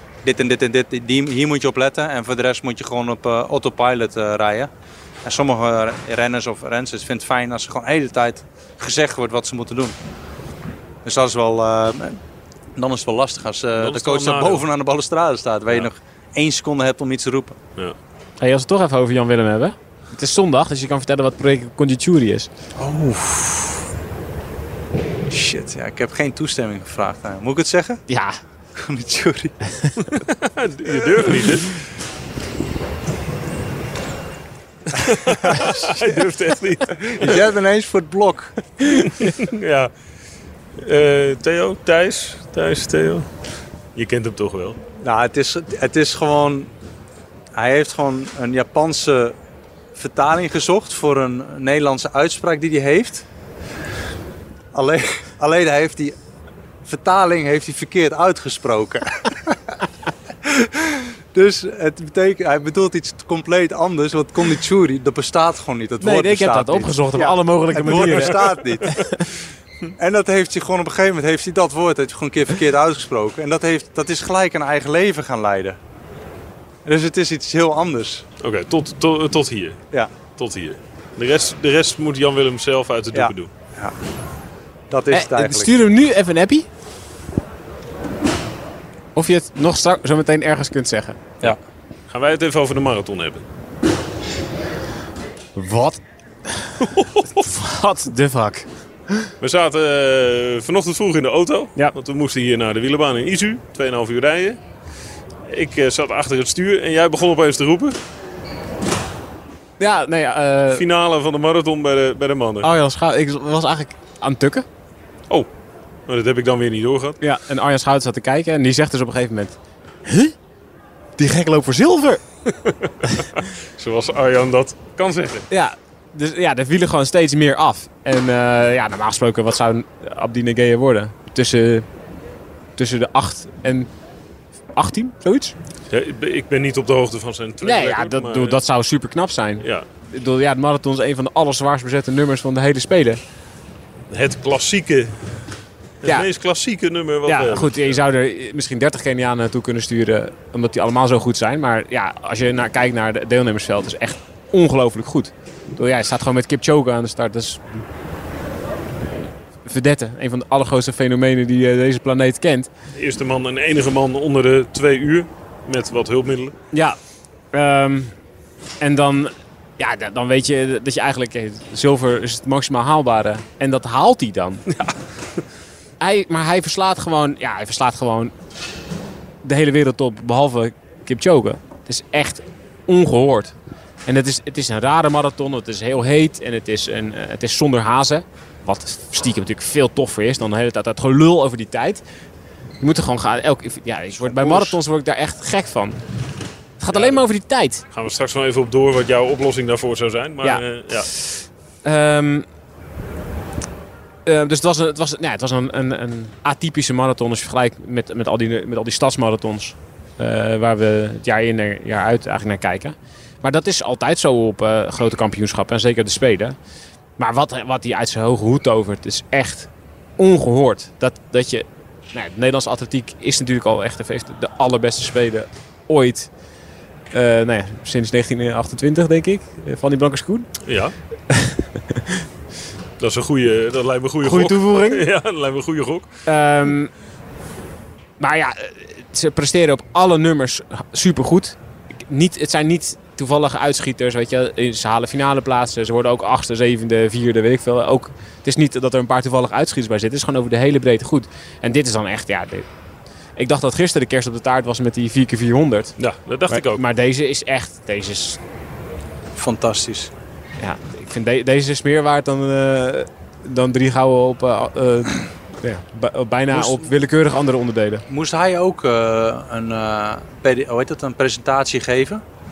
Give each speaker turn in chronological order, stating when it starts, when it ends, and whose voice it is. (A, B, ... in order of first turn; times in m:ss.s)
0:00.2-0:04.7 A
0:05.2-0:10.0 A
0:11.0-0:12.2 A
0:12.8-0:17.6 A
0:13.8-0:14.6 B
0:18.4-0:22.5 C
0:22.8-0:23.8 A
0:25.3-0:28.0 A
0:28.1-0:28.4 C
0:28.8-0:29.6 A
0:30.2-0:31.8 B
0:34.9-0:37.4 B
0:35.4-0:36.2 A
0:36.9-0:38.5 A
0:38.9-0:39.9 B
0:40.8-0:43.3 B
0:43.9-0:44.8 B
0:45.0-0:46.7 A
0:47.5-0:49.4 A
0:49.9-0:53.2 A
0:54.7-0:56.2 A
0:56.8-0:59.8 A
1:00.4-1:09.0 A
1:06.0-1:09.2 C
1:07.9-1:08.2 B
1:10.0-1:15.8 A
1:16.8-1:18.2 A
1:18.4-1:19.8 B
1:20.4-1:23.5 B
1:23.1-1:23.9 A
1:24.9-1:25.7 A
1:25.1-1:26.7 C
1:29.1-1:31.3 C
1:32.1-1:33.4 B
1:35.5-1:39.3 C
1:36.8-1:37.4 B
1:39.4-1:44.6 B
1:45.5-1:48.0 B
1:49.8-1:50.8 C
1:50.7-1:52.7 B
1:52.6-1:54.6 C
1:56.1-1:57.2 B
1:57.2-2:00.3 C
2:01.2-2:02.2 C
2:02.5-2:05.5 B
2:05.5-2:11.9 C
2:12.8-2:13.9 C
2:14.7-2:15.5 C
2:15.9-2:18.6 B
2:17.6-2:23.2 C
2:24.1-2:25.2 B
2:26.0-2:28.0 B
2:27.2-2:37.8 C
2:39.6-2:42.7 C
2:42.9-2:46.5 B
2:46.7-2:47.0 C
2:47.5-2:48.1 C
2:48.8-2:54.6 C
2:56.0-2:58.3 C
2:59.4-3:03.5 C
3:04.0-3:12.0 C
3:12.8-3:16.0 C
3:14.2-3:14.8 B
3:16.8-3:17.8 C
3:16.9-3:17.2 B
3:17.9-3:21.1 B
3:20.4-3:22.4 C
3:24.2-3:36.6 C
3:37.2-3:46.3 C
3:47.1-3:50.5 C
3:50.6-3:50.9 B
3:51.3-3:52.2 C
3:53.0-3:56.1 B
3:54.2-3:55.1 C
3:56.3-3:56.9 C
3:58.2-4:12.7 C
4:13.4-4:18.4 C
4:16.0-4:16.8 B
4:19.4-4:20.1 A
4:20.6-4:28.0 C
4:26.5-4:26.8 A
4:28.1-4:32.2 A